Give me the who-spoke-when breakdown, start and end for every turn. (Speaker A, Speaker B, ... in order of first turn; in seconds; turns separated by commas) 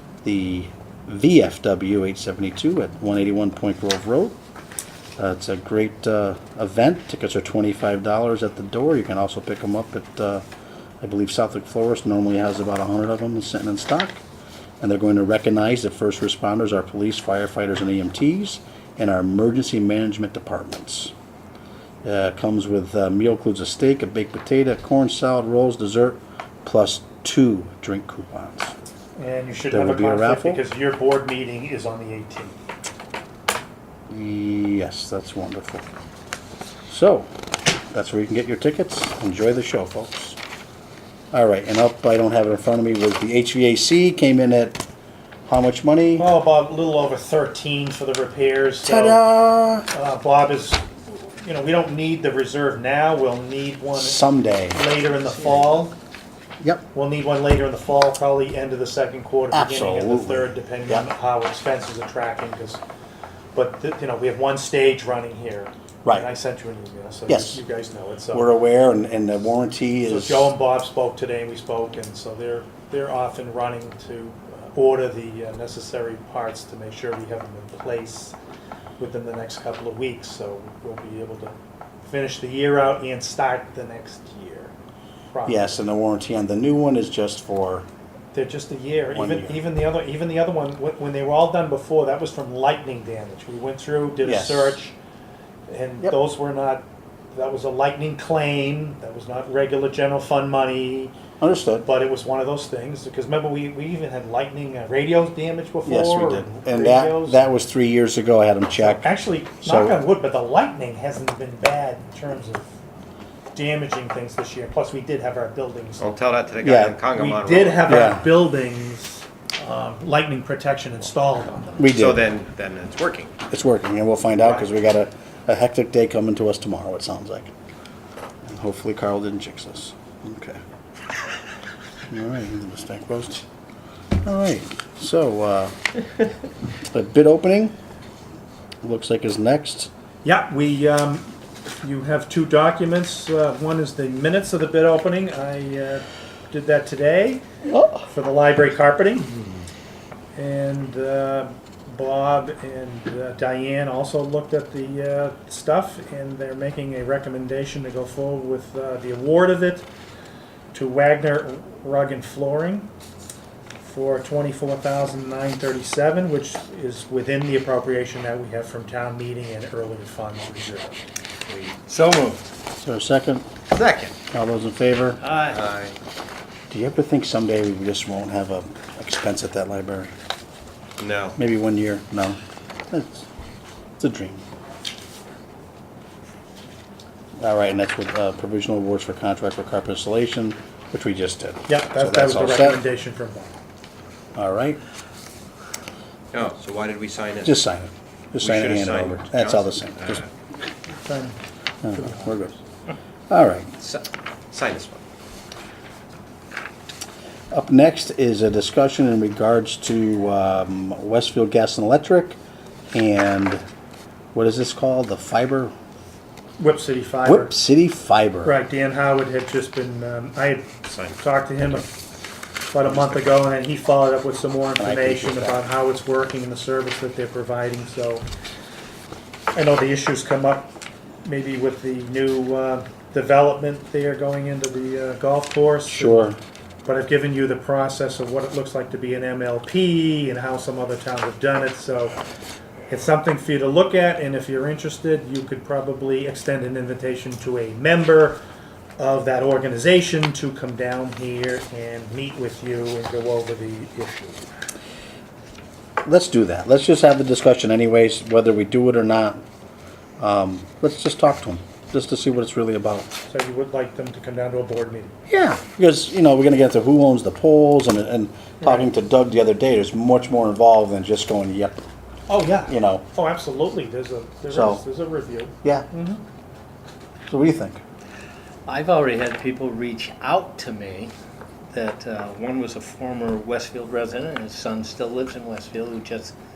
Speaker A: 0.2-4.3, Speaker A: 5.2-10.4, Speaker A: 11.0-14.2, Speaker A: 14.8-21.1, Speaker A: 22.0-28.7, Speaker B: 29.2-32.5, Speaker A: 29.7-30.6, Speaker A: 34.1-35.9, Speaker A: 36.9-37.3, Speaker A: 37.9-40.4, Speaker A: 41.3-44.8, Speaker A: 45.5-46.3, Speaker B: 46.1-49.2, Speaker A: 48.8-49.9, Speaker B: 49.9-54.2, Speaker A: 53.9-54.8, Speaker B: 54.7-55.9, Speaker B: 56.9-62.8, Speaker A: 59.5-61.1, Speaker B: 63.5-68.5, Speaker A: 67.3-67.6, Speaker A: 68.3-70.5, Speaker B: 70.0-78.4, Speaker B: 79.0-84.7, Speaker B: 85.3-85.7, Speaker A: 85.5-87.9, Speaker B: 88.3-95.0, Speaker A: 89.1-89.6, Speaker A: 94.2-94.8, Speaker B: 95.7-101.2, Speaker A: 101.4-101.8, Speaker B: 101.8-107.4, Speaker A: 105.8-109.1, Speaker B: 108.8-112.7, Speaker A: 109.6-110.0, Speaker B: 113.5-116.0, Speaker C: 116.0-117.9, Speaker A: 116.6-117.0, Speaker B: 117.1-121.9, Speaker A: 117.8-118.4, Speaker A: 121.8-122.2, Speaker C: 121.8-123.3, Speaker A: 123.5-127.5, Speaker B: 124.4-124.7, Speaker A: 128.4-130.6, Speaker A: 132.1-133.4, Speaker A: 134.2-135.8, Speaker A: 136.9-137.7, Speaker A: 138.8-139.9, Speaker B: 140.2-147.4, Speaker A: 147.7-148.1, Speaker B: 148.1-149.4, Speaker B: 150.3-159.8, Speaker B: 160.7-162.9, Speaker B: 163.8-171.0, Speaker C: 171.5-171.8, Speaker D: 171.9-172.4, Speaker A: 172.8-173.5, Speaker C: 173.7-174.1, Speaker A: 174.3-175.2, Speaker D: 175.2-175.6, Speaker C: 175.4-175.9, Speaker A: 176.7-180.1, Speaker C: 181.0-181.4, Speaker A: 181.4-182.4, Speaker A: 182.9-183.3, Speaker A: 184.0-184.4, Speaker A: 187.4-192.8, Speaker B: 191.7-193.6, Speaker A: 194.3-194.8, Speaker C: 196.3-197.6, Speaker A: 197.4-200.2, Speaker C: 198.4-200.3, Speaker B: 201.1-201.3, Speaker A: 201.8-202.6, Speaker A: 203.3-203.7, Speaker C: 203.8-205.0, Speaker A: 207.5-212.4, Speaker A: 212.9-213.6, Speaker A: 214.3-215.7, Speaker B: 216.6-217.5, Speaker A: 217.2-218.5, Speaker B: 218.4-221.9, Speaker C: 220.9-221.2, Speaker B: 222.7-228.2, Speaker A: 224.8-225.6, Speaker B: 229.5-230.7, Speaker B: 231.2-236.3, Speaker A: 235.9-236.4, Speaker B: 236.8-242.2, Speaker B: 242.9-248.4, Speaker B: 249.0-254.5, Speaker A: 256.0-259.4, Speaker A: 260.2-263.1, Speaker B: 263.3-265.1, Speaker A: 265.3-271.8, Speaker B: 272.3-276.2, Speaker A: 272.7-273.0, Speaker A: 274.5-274.8, Speaker A: 275.6-275.9, Speaker A: 277.3-277.8, Speaker D: 278.6-281.1, Speaker D: 281.7-286.3